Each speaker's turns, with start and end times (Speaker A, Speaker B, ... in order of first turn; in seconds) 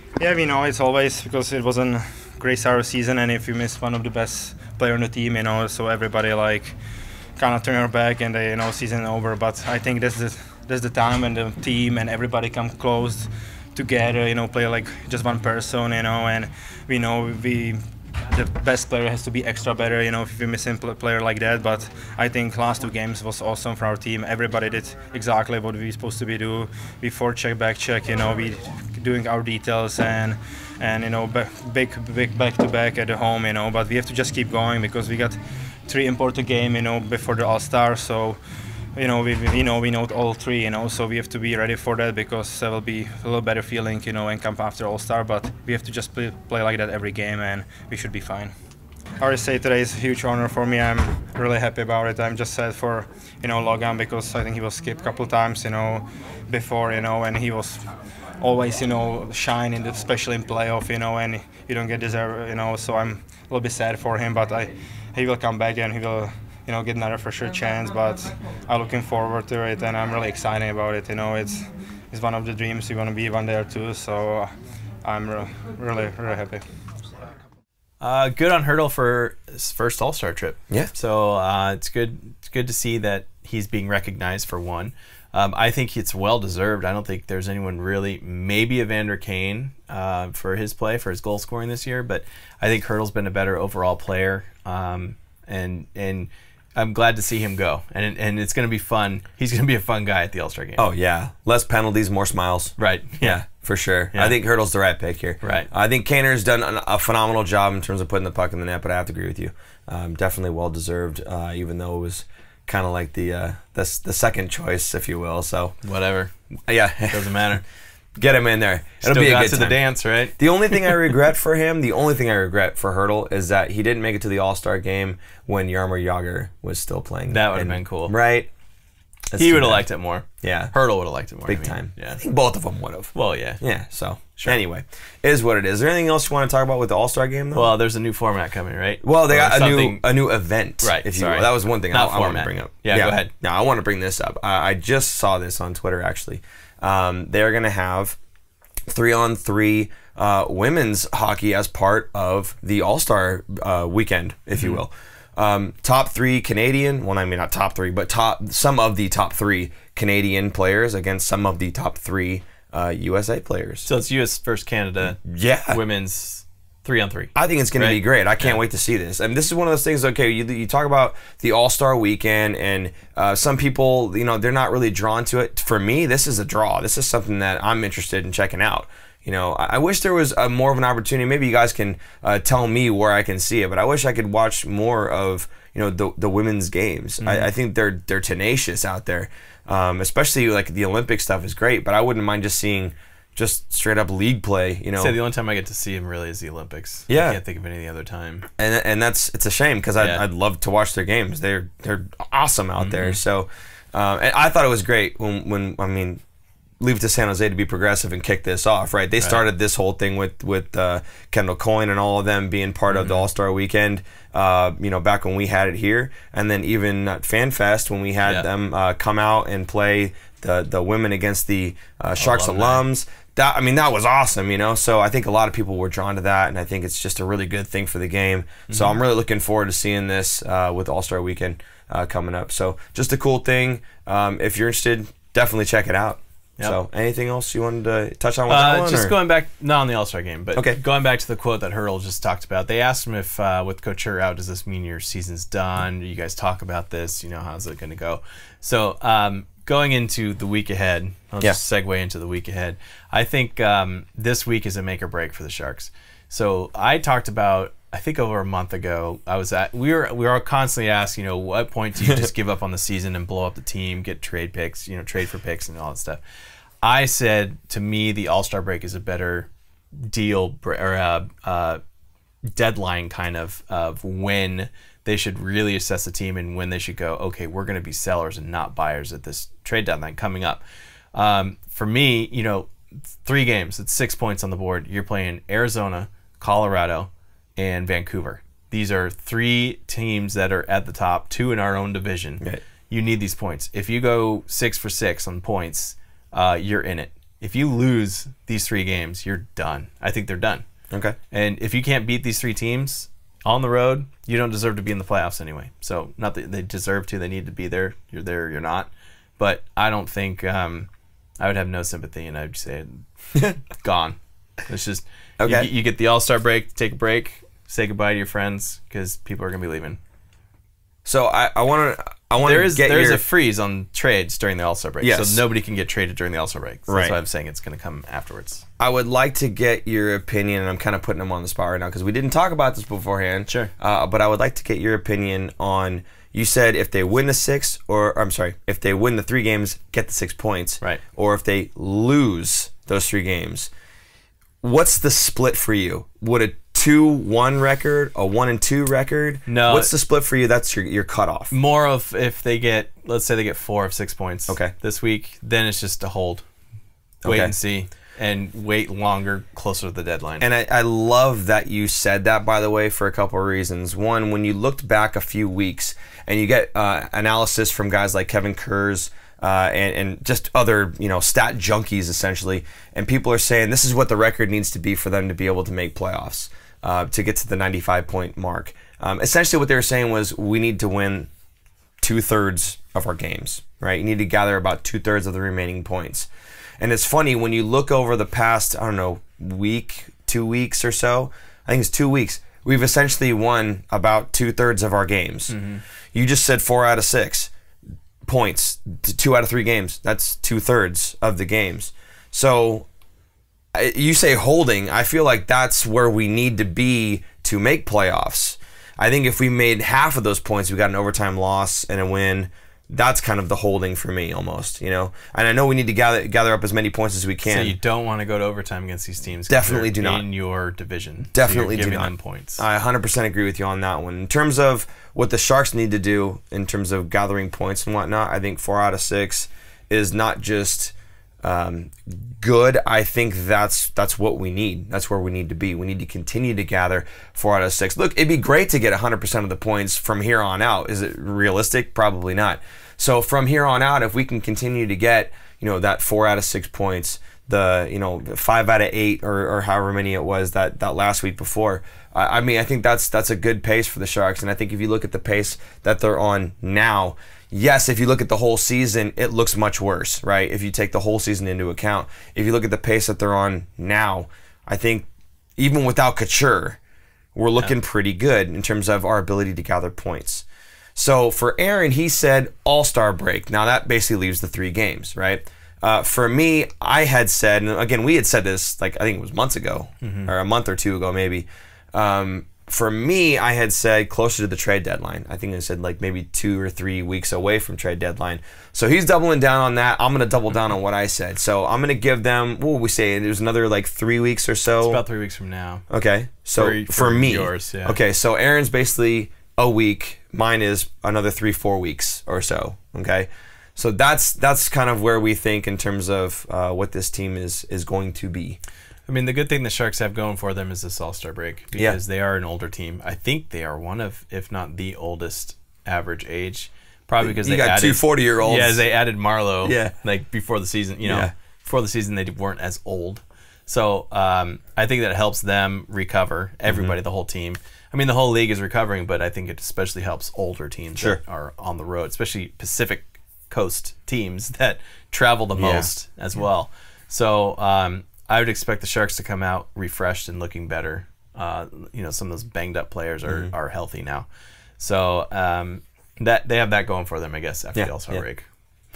Speaker A: 0.2-6.8, 7.4-38.4, 39.0-48.5, 49.2-57.9, 58.4-74.5, 75.0-76.6
Speaker B: 78.0-100.8, 102.8-103.4, 104.1-104.4, 105.4-105.7, 115.8-116.3, 117.1-117.6, 119.0-121.2, 127.3-128.2, 129.4-132.2, 133.1-133.6, 134.4-134.6, 137.5-140.1, 140.8-143.3, 154.6-154.8, 163.9-165.2, 165.7-168.6, 187.2-187.5, 195.0-198.5, 200.0-200.2, 202.8-203.2, 212.9-213.2, 222.2-222.8, 228.7-229.0, 238.5-266.2, 266.8-271.8, 272.5-280.6, 281.1-282.7, 283.2-300.6, 301.3-310.9, 311.4-313.1, 313.7-320.0, 322.4-328.6, 349.5-349.9, 351.5-356.4, 357.2-360.4, 395.5-395.8, 417.4-422.6, 480.0-480.3, 494.8-495.8, 496.6-498.0, 509.1-544.3, 544.8-548.5
Speaker C: 100.8-115.8, 116.7-117.6, 118.2-119.8, 120.4-128.5, 129.3-129.9, 130.4-130.7, 131.5-137.7, 139.0-148.2, 148.9-163.9, 165.2-165.8, 167.3-195.2, 197.1-197.4, 198.6-206.2, 206.8-239.2, 240.5-240.8, 300.9-301.2, 315.4-315.7, 321.1-323.2, 325.0-325.4, 326.9-327.2, 328.8-343.7, 344.6-351.5, 354.5-354.7, 357.2-357.5, 360.4-381.3, 382.0-395.6, 396.1-397.5, 398.2-402.9, 403.7-417.8, 419.5-420.3, 421.3-466.8, 467.4-495.0, 495.9-508.6, 517.2-518.8, 519.6-520.0, 521.0-521.3, 526.7-527.0, 535.5-535.9, 547.8-548.2